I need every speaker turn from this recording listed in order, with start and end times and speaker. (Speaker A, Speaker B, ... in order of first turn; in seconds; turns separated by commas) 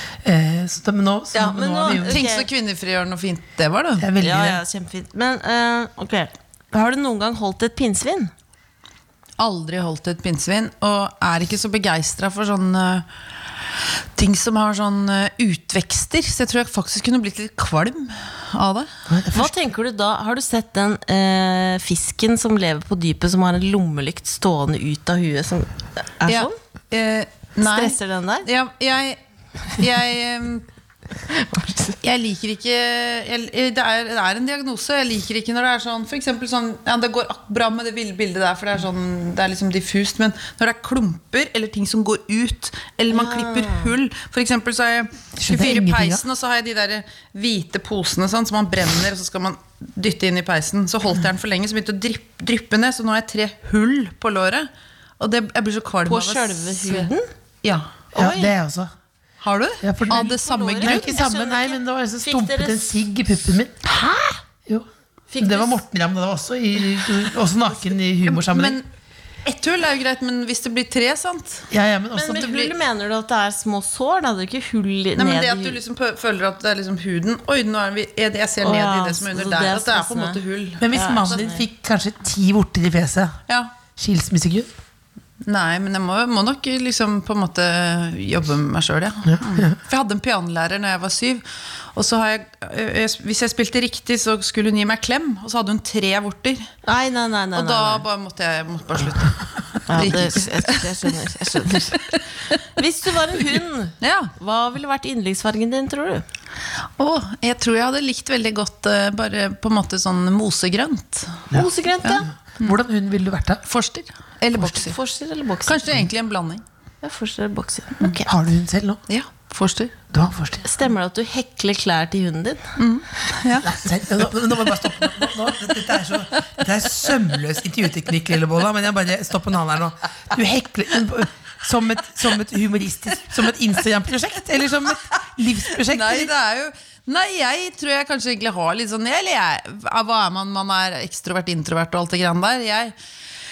Speaker A: 0.2-2.2, Speaker B: 1.3-2.5, Speaker C: 1.9-4.1, Speaker A: 4.0-4.6, Speaker B: 4.2-8.3, Speaker C: 9.4-13.1, Speaker C: 14.2-18.9, Speaker A: 19.1-19.5, Speaker B: 19.3-26.5, Speaker C: 26.3-29.2, Speaker B: 27.6-28.5, Speaker C: 29.7-30.6, Speaker B: 31.3-32.0, Speaker C: 32.0-57.1, Speaker B: 43.1-43.9, Speaker A: 45.4-46.2, Speaker B: 56.0-57.2, Speaker C: 57.6-58.0, Speaker B: 58.1-58.5, Speaker A: 58.1-58.9, Speaker C: 59.4-61.2, Speaker A: 59.8-63.8, Speaker B: 60.1-62.9, Speaker B: 63.9-64.4, Speaker B: 65.3-65.8, Speaker A: 65.4-68.8, Speaker C: 68.2-68.8, Speaker C: 69.4-71.7, Speaker A: 71.7-72.7, Speaker B: 72.1-75.8, Speaker C: 75.2-81.4, Speaker B: 78.6-80.4, Speaker A: 80.8-83.3, Speaker B: 80.9-81.6, Speaker A: 84.0-84.7, Speaker C: 85.5-96.7, Speaker A: 89.2-89.8, Speaker B: 96.8-98.0, Speaker C: 97.5-100.9, Speaker B: 99.9-106.2, Speaker C: 104.0-104.3, Speaker C: 107.0-111.5, Speaker B: 111.5-112.3, Speaker C: 112.0-112.8, Speaker A: 112.6-113.6, Speaker C: 113.7-115.0, Speaker B: 114.5-116.0, Speaker C: 115.7-116.6, Speaker B: 117.0-118.3, Speaker A: 118.2-119.0, Speaker C: 119.1-120.0, Speaker A: 120.1-120.6, Speaker B: 120.6-122.7, Speaker C: 122.8-123.7, Speaker A: 123.6-136.3, Speaker C: 135.7-142.9